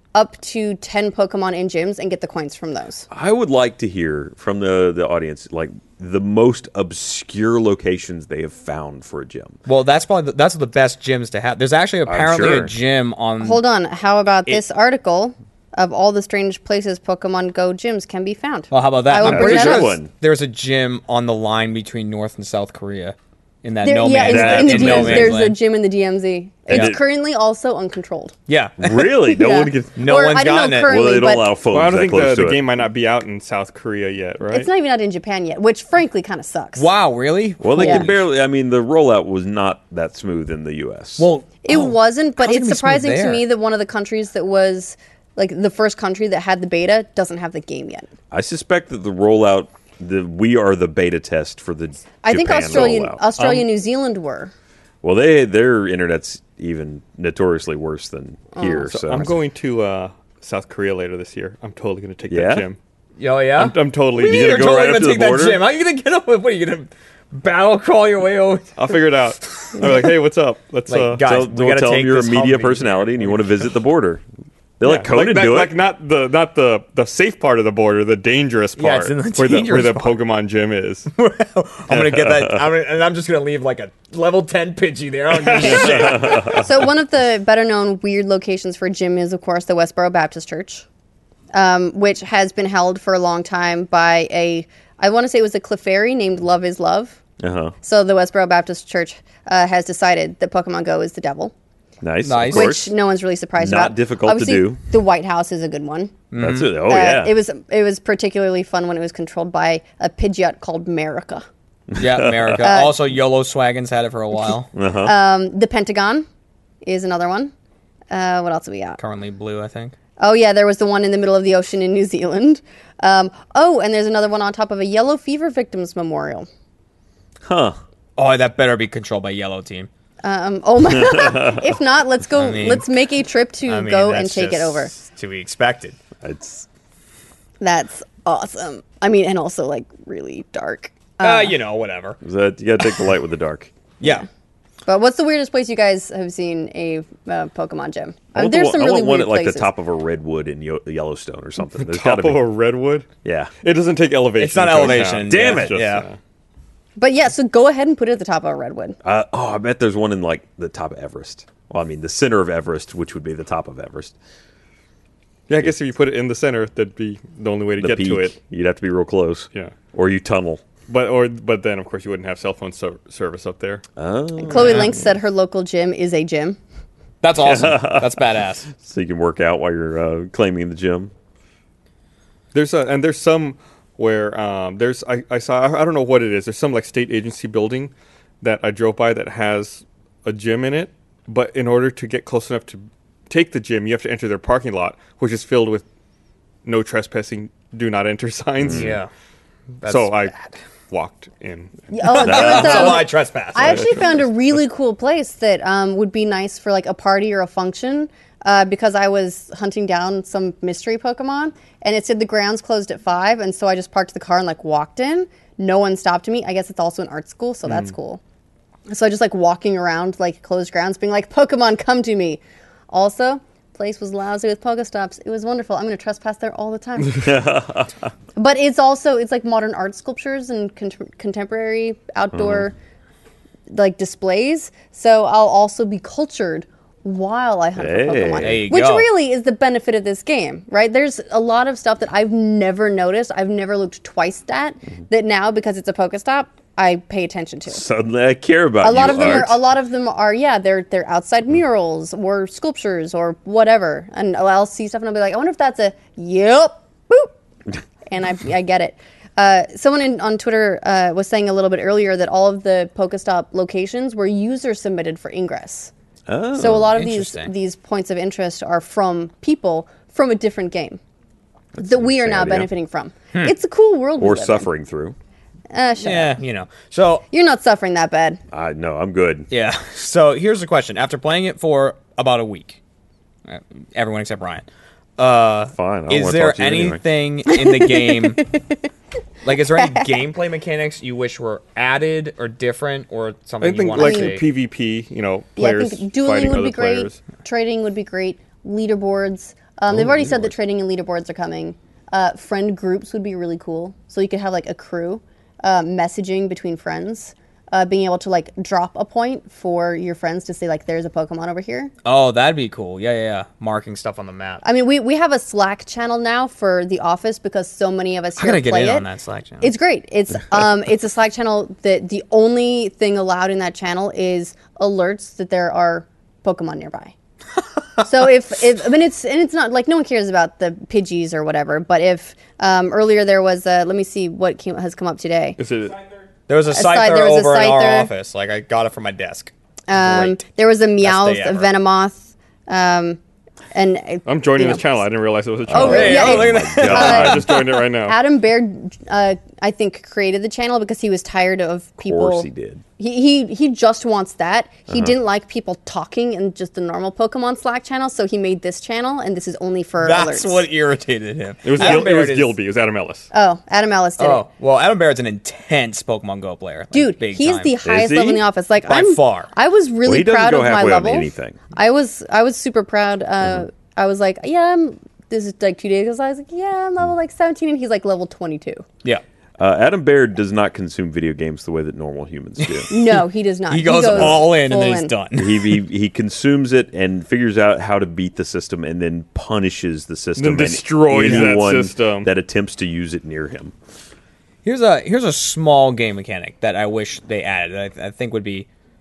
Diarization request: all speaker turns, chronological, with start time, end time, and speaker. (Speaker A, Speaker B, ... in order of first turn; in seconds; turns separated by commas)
Speaker A: 0.1-3.1, Speaker B: 3.1-9.6, Speaker C: 9.7-13.6, Speaker B: 12.1-12.7, Speaker A: 13.4-20.0, Speaker C: 18.7-25.6, Speaker B: 19.2-20.1, Speaker A: 23.8-28.3, Speaker B: 24.2-25.4, Speaker C: 26.7-26.9, Speaker B: 26.7-27.0, Speaker C: 28.5-29.3, Speaker B: 28.8-30.0, Speaker A: 29.3-31.5, Speaker C: 29.9-30.9, Speaker B: 30.8-32.6, Speaker D: 31.7-34.7, Speaker A: 34.5-36.9, Speaker C: 36.8-38.2, Speaker B: 37.6-41.3, Speaker A: 37.8-38.1, Speaker C: 41.2-43.5, Speaker A: 41.6-48.1, Speaker B: 48.3-53.2, Speaker A: 52.2-54.5, Speaker B: 55.0-59.3, Speaker A: 58.5-58.9, Speaker D: 58.9-62.8, Speaker B: 62.3-62.6, Speaker C: 63.2-68.8, Speaker D: 63.6-64.8, Speaker B: 64.2-65.6, Speaker D: 68.8-71.2, Speaker C: 69.4-70.0, Speaker C: 70.9-73.6, Speaker B: 71.2-74.2, Speaker B: 74.8-75.8, Speaker D: 74.8-81.1, Speaker C: 78.8-80.2, Speaker C: 81.1-86.5, Speaker B: 81.9-82.6, Speaker D: 85.4-86.2, Speaker A: 85.6-90.8, Speaker B: 85.9-86.7, Speaker A: 91.5-97.2, Speaker B: 97.4-97.7, Speaker A: 97.8-101.5, Speaker B: 102.0-102.9, Speaker C: 102.2-102.8, Speaker A: 102.5-106.2, Speaker B: 103.6-104.8, Speaker C: 106.3-106.7, Speaker B: 106.4-107.3, Speaker A: 106.8-111.4, Speaker B: 111.9-112.7, Speaker C: 112.0-114.7, Speaker A: 112.6-113.0, Speaker B: 114.7-115.1, Speaker A: 115.0-116.2, Speaker A: 116.8-117.5, Speaker A: 118.1-119.0, Speaker C: 119.0-119.9, Speaker A: 120.2-126.5, Speaker B: 127.4-127.8, Speaker C: 128.2-129.9, Speaker A: 130.2-134.9, Speaker B: 130.9-131.7, Speaker C: 132.3-132.9, Speaker C: 133.7-136.0, Speaker B: 136.2-136.7, Speaker A: 137.6-141.6, Speaker C: 141.2-142.2, Speaker B: 142.2-143.7, Speaker C: 144.0-144.2, Speaker A: 144.8-149.7, Speaker B: 148.3-152.4, Speaker D: 151.8-153.1, Speaker B: 153.2-153.5, Speaker D: 153.6-156.2, Speaker C: 154.4-156.1, Speaker B: 155.2-155.8, Speaker A: 157.0-159.0, Speaker B: 159.0-164.2, Speaker D: 165.5-168.3, Speaker B: 167.8-170.6, Speaker D: 170.9-173.8, Speaker B: 173.9-175.0, Speaker A: 174.4-176.6, Speaker C: 174.5-174.9, Speaker C: 177.2-178.7, Speaker B: 177.4-181.1, Speaker D: 182.5-195.8, Speaker D: 196.6-199.0, Speaker B: 198.6-199.0, Speaker C: 198.7-199.1, Speaker C: 199.8-200.5, Speaker D: 199.8-200.4, Speaker D: 200.9-202.9, Speaker A: 201.9-218.2, Speaker C: 202.0-203.9, Speaker B: 202.2-202.9, Speaker D: 203.6-204.2, Speaker D: 217.7-217.9, Speaker A: 218.9-227.4, Speaker B: 227.1-228.1, Speaker A: 228.3-232.7, Speaker B: 232.3-232.7, Speaker A: 233.7-247.8, Speaker B: 237.8-238.7, Speaker C: 238.4-239.1, Speaker B: 247.7-249.6, Speaker A: 248.8-257.3, Speaker A: 258.1-265.9, Speaker B: 266.3-266.9, Speaker A: 266.5-271.0, Speaker C: 266.8-267.5, Speaker B: 271.7-272.7, Speaker A: 271.8-274.7, Speaker B: 274.2-275.1, Speaker A: 275.7-276.4, Speaker C: 276.0-277.2, Speaker A: 277.3-278.4, Speaker B: 278.5-279.5, Speaker C: 279.5-282.8, Speaker C: 283.5-284.6, Speaker C: 285.2-288.5, Speaker B: 285.7-287.0, Speaker A: 287.5-288.6, Speaker C: 289.4-294.4, Speaker A: 289.8-290.2, Speaker D: 293.6-297.2, Speaker A: 294.0-294.3, Speaker A: 295.6-311.9, Speaker B: 299.9-300.5, Speaker C: 312.0-314.6, Speaker A: 314.6-319.1, Speaker C: 318.4-319.7, Speaker A: 319.6-327.1, Speaker A: 328.0-335.6, Speaker D: 335.6-336.0, Speaker C: 336.5-340.4, Speaker A: 336.7-338.1, Speaker A: 339.9-343.2, Speaker C: 341.0-341.7, Speaker A: 343.7-345.0, Speaker D: 344.2-348.2, Speaker B: 345.7-347.6, Speaker A: 345.7-360.6, Speaker C: 345.7-347.6, Speaker B: 352.0-352.8, Speaker B: 354.9-355.1, Speaker C: 360.0-362.6, Speaker D: 361.6-363.3, Speaker A: 361.8-362.1, Speaker A: 363.3-364.4, Speaker C: 364.2-367.7, Speaker A: 366.9-378.8, Speaker B: 367.8-368.4, Speaker C: 368.8-369.5, Speaker B: 370.0-371.6, Speaker B: 379.6-382.9, Speaker C: 382.6-383.2, Speaker A: 382.9-385.1, Speaker C: 383.7-385.8, Speaker B: 384.0-384.4, Speaker B: 385.4-393.7, Speaker D: 390.4-392.3, Speaker C: 391.2-391.5, Speaker C: 394.6-398.7